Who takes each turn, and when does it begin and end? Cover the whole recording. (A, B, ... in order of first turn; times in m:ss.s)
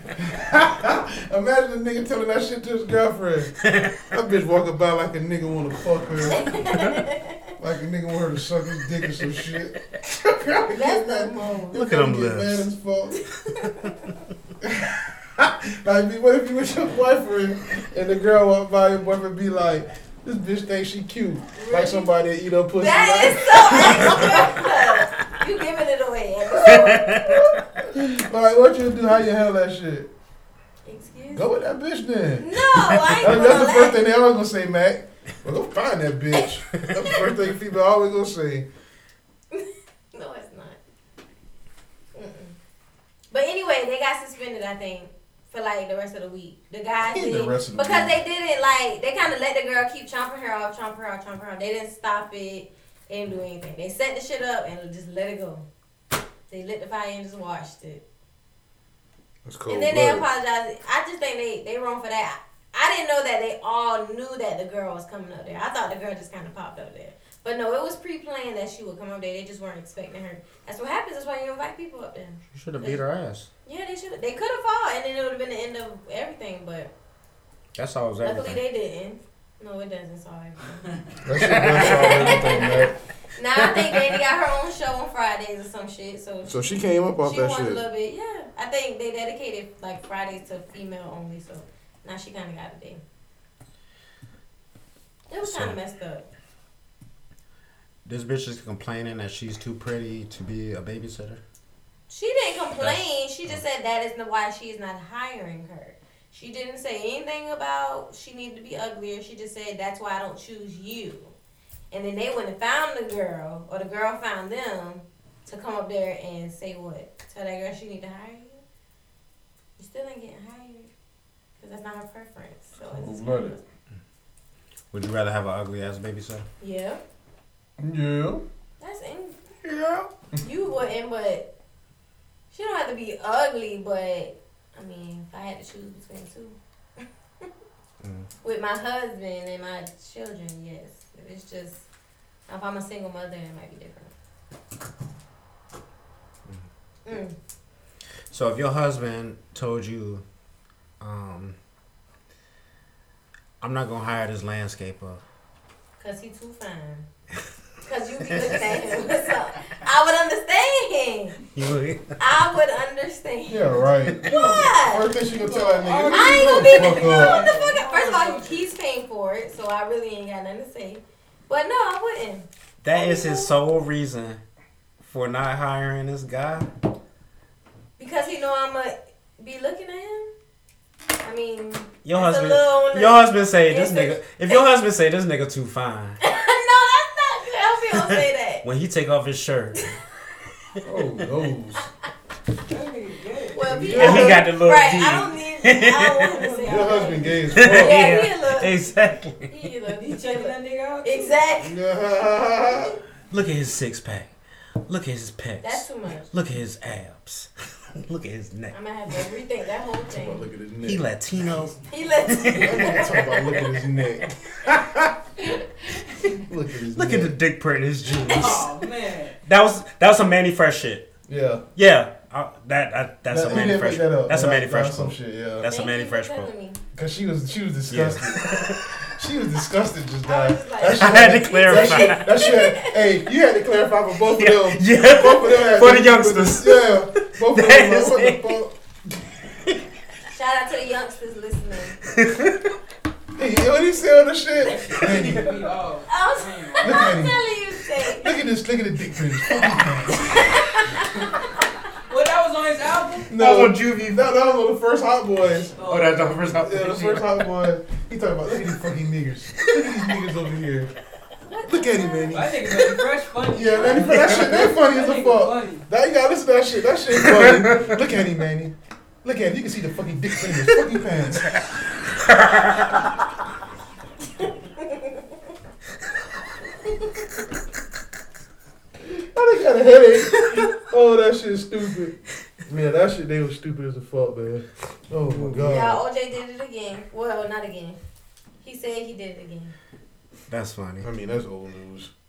0:00.2-0:06.6 A
0:03.6-0:04.0 B
0:06.3-0:07.5 C
0:06.7-0:07.0 B
0:07.6-0:13.2 A
0:10.7-0:11.8 C
0:11.7-0:12.7 B
0:13.5-0:14.0 C
0:14.6-0:24.7 A
0:21.5-0:22.1 C
0:22.7-0:27.2 C
0:26.6-0:30.1 A
0:26.6-0:27.6 B
0:30.8-0:31.5 C
0:31.3-0:32.5 A
0:32.4-0:34.0 C
0:32.7-0:33.2 B
0:33.2-0:38.7 A
0:39.5-0:40.8 C
0:42.1-0:42.5 C
0:43.3-0:55.6 C
0:47.0-0:48.2 A
0:56.5-0:58.0 C
0:59.4-1:00.3 A
0:59.7-1:13.0 C
1:12.5-1:13.5 B
1:13.6-1:16.9 C
1:17.8-1:18.6 B
1:18.2-1:20.9 C
1:21.2-1:22.9 A
1:21.3-1:22.7 B
1:21.6-1:33.0 C
1:23.6-1:24.2 B
1:26.5-1:27.8 A
1:35.3-1:36.3 C
1:35.4-1:35.8 B
1:38.0-1:41.4 B
1:42.1-1:51.3 C
1:42.8-1:43.6 B
1:51.9-1:58.6 C
1:59.8-2:00.9 C
2:01.6-2:03.6 C
2:02.9-2:03.6 A
2:04.9-2:06.5 B
2:06.6-2:07.0 C
2:07.8-2:08.4 A
2:08.8-2:09.4 C
2:09.6-2:10.1 B
2:10.4-2:11.5 C
2:12.5-2:17.5 C
2:18.0-2:18.3 B
2:18.4-2:21.8 C
2:22.5-2:24.1 C
2:27.0-2:27.3 C
2:28.3-2:30.2 B
2:31.0-2:31.6 B
2:33.6-2:35.2 B
2:36.0-2:37.1 C
2:37.8-2:41.4 C
2:38.2-2:38.6 B
2:41.5-2:42.2 B
2:42.2-2:45.1 C
2:43.5-2:47.5 A
2:44.3-2:44.7 D
2:45.3-2:48.7 D
2:46.0-2:53.5 C
2:52.8-2:54.4 B
2:55.0-2:56.7 B
2:58.0-3:00.3 C
3:01.2-3:04.6 C
3:02.0-3:06.2 B
3:06.2-3:08.6 C
3:07.9-3:09.9 B
3:10.8-3:11.9 A
3:12.7-3:13.7 D
3:13.5-3:18.9 C
3:13.7-3:14.5 A
3:13.9-3:16.4 B
3:16.4-3:17.3 D
3:16.6-3:18.1 A
3:17.5-3:19.5 B
3:19.5-3:21.7 C
3:20.0-3:21.4 D
3:21.6-3:23.0 A
3:23.3-3:24.3 B
3:24.9-3:28.7 B
3:25.6-3:26.3 C
3:28.7-3:30.4 C
3:30.1-3:31.0 A
3:30.8-3:33.4 B
3:31.9-3:33.4 C
3:32.5-3:35.1 A
3:36.4-3:37.3 A
3:36.9-3:38.7 B
3:38.1-3:39.4 D
3:39.4-3:41.1 B
3:41.3-3:41.6 A
3:41.8-3:46.5 B
3:43.3-3:45.7 A
3:45.6-3:46.8 C
3:46.9-3:58.7 A
3:47.9-3:48.9 B
3:50.2-3:53.0 C
3:50.9-3:52.3 B
3:54.3-3:58.6 B
4:00.3-4:02.0 C
4:02.1-4:02.6 B
4:03.4-4:05.7 A
4:04.6-4:07.2 D
4:06.1-4:08.3 C
4:06.8-4:07.4 A
4:08.1-4:10.5 A
4:10.3-4:11.2 C
4:12.1-4:13.3 D
4:13.3-4:15.7 A
4:13.3-4:14.4 B
4:15.7-4:16.4 D
4:15.8-4:17.4 B
4:16.6-4:20.9 A
4:19.6-4:20.0 B
4:21.5-4:22.5 C
4:21.6-4:22.7 A
4:22.3-4:25.8 D
4:23.4-4:31.6 A
4:24.2-4:24.5 B
4:27.2-4:27.9 B
4:32.1-4:33.0 B
4:34.8-4:35.1 C
4:39.0-4:46.0 A
4:45.2-4:45.9 B
4:45.6-4:48.0 C
4:48.6-4:49.7 C
4:50.5-4:51.1 B
4:51.0-4:52.1 A